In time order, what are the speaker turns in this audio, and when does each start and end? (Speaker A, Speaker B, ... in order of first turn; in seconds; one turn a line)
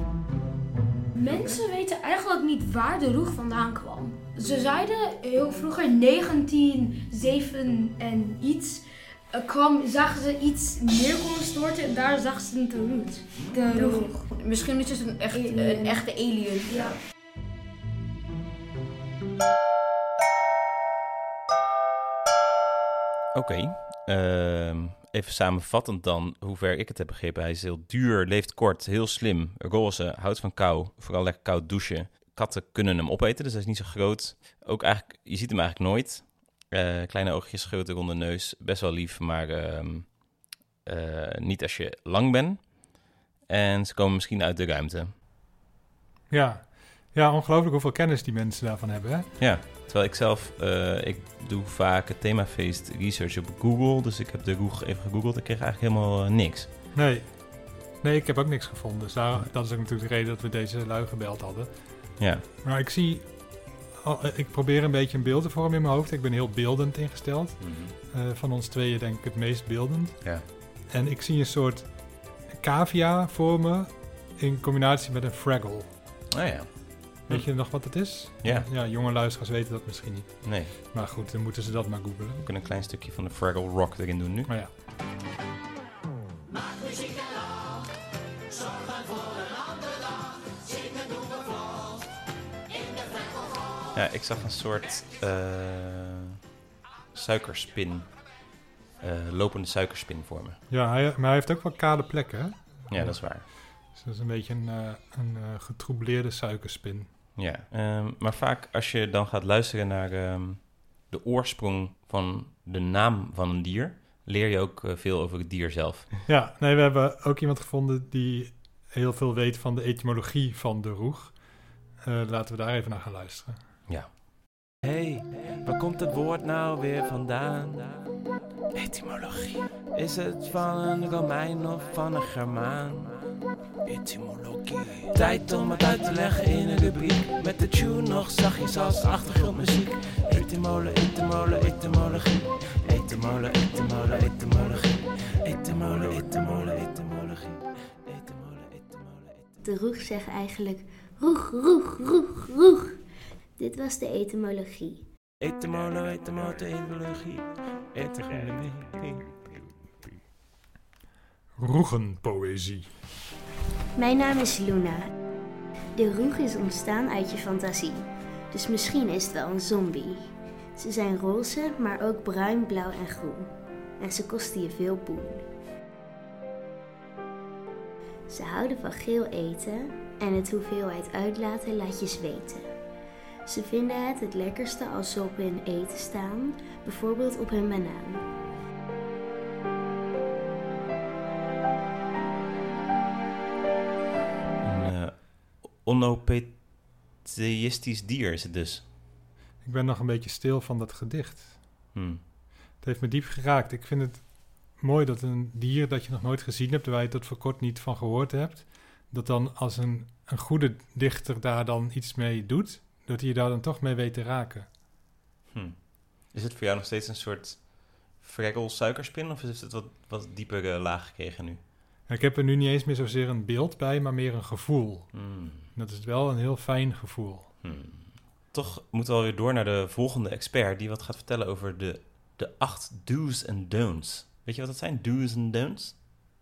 Speaker A: 1.1-14.2
Speaker B: 1.2-1.6
Speaker B: 14.3-16.9
Speaker A: 15.3-16.0
Speaker A: 16.7-16.9
Speaker C: 23.3-40.3
Speaker C: 40.8-42.9
Speaker C: 43.5-45.1
Speaker D: 46.3-49.3
Speaker C: 49.4-56.7
Speaker D: 56.9-57.2
Speaker D: 58.0-61.7
Speaker C: 62.2-62.4
Speaker D: 62.6-63.3
Speaker D: 64.0-70.3
Speaker C: 67.6-67.9
Speaker D: 70.9-71.9
Speaker D: 72.5-75.9
Speaker C: 76.3-77.5
Speaker D: 77.3-82.4
Speaker C: 80.4-80.7
Speaker C: 82.4-84.5
Speaker C: 93.9-96.4
Speaker C: 97.1-98.1
Speaker C: 99.0-100.6
Speaker D: 100.7-103.4
Speaker C: 102.9-103.4
Speaker D: 103.9-107.1
Speaker C: 107.3-116.1
Speaker D: 116.3-121.3
Speaker D: 122.0-123.6
Speaker E: 124.8-128.0
Speaker E: 128.8-133.1
Speaker E: 133.8-149.1
Speaker F: 149.6-152.9
Speaker F: 153.6-155.0
Speaker E: 155.4-159.4
Speaker D: 161.6-162.9
Speaker F: 163.9-165.1
Speaker F: 165.9-175.5
Speaker F: 178.3-182.7
Speaker F: 183.4-188.3
Speaker C: 194.6-198.8
Speaker D: 199.6-201.5
Speaker C: 201.9-202.2
Speaker D: 202.8-204.2
Speaker D: 204.8-214.7
Speaker C: 215.5-221.6
Speaker D: 222.1-225.1
Speaker C: 225.1-225.7
Speaker D: 225.7-227.5
Speaker C: 227.6-235.9